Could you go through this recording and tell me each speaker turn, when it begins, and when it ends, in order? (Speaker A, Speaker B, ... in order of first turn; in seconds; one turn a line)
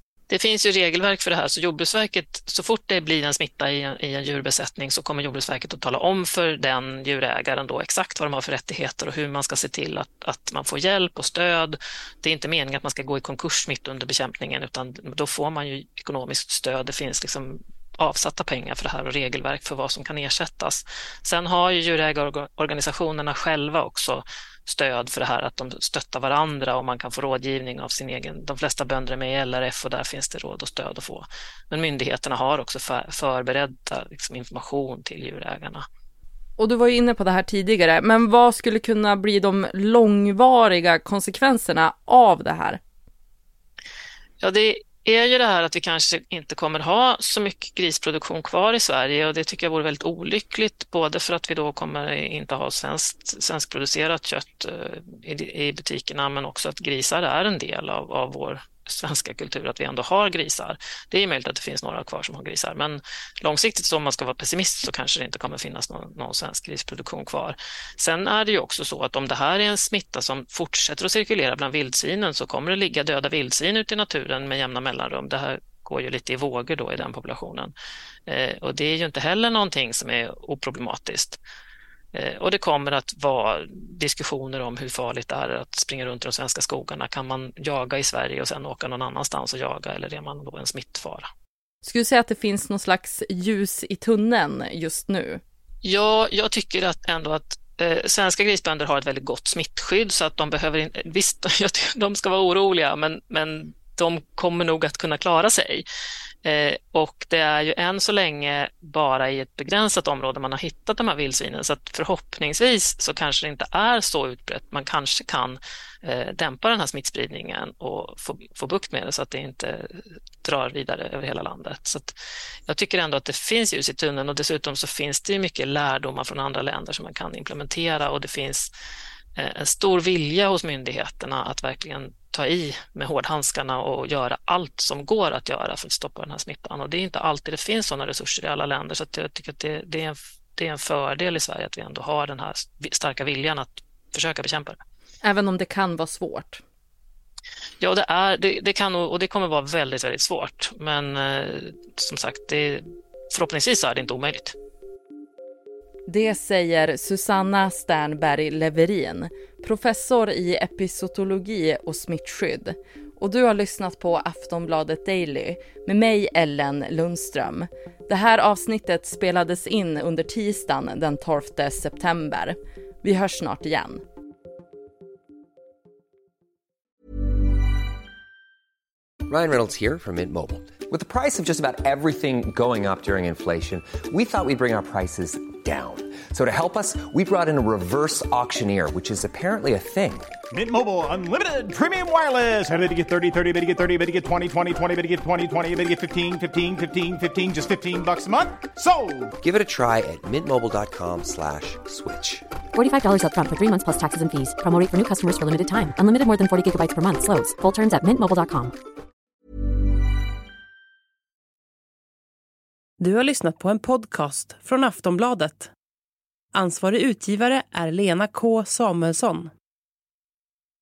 Speaker A: 0.3-35.8
Speaker B: 36.6-42.8
Speaker A: 44.4-77.7
Speaker A: 78.3-81.4
Speaker A: 82.1-91.3
Speaker B: 91.8-95.4
Speaker A: 95.8-105.8
Speaker A: 106.4-122.1
Speaker A: 122.7-128.7
Speaker A: 129.4-144.8
Speaker B: 145.2-146.6
Speaker A: 147.8-154.5
Speaker B: 156.1-174.0
Speaker C: 179.3-190.3
Speaker D: 190.5-199.3
Speaker C: 199.4-202.4
Speaker E: 202.7-208.7
Speaker F: 213.0-215.7
Speaker F: 216.5-219.5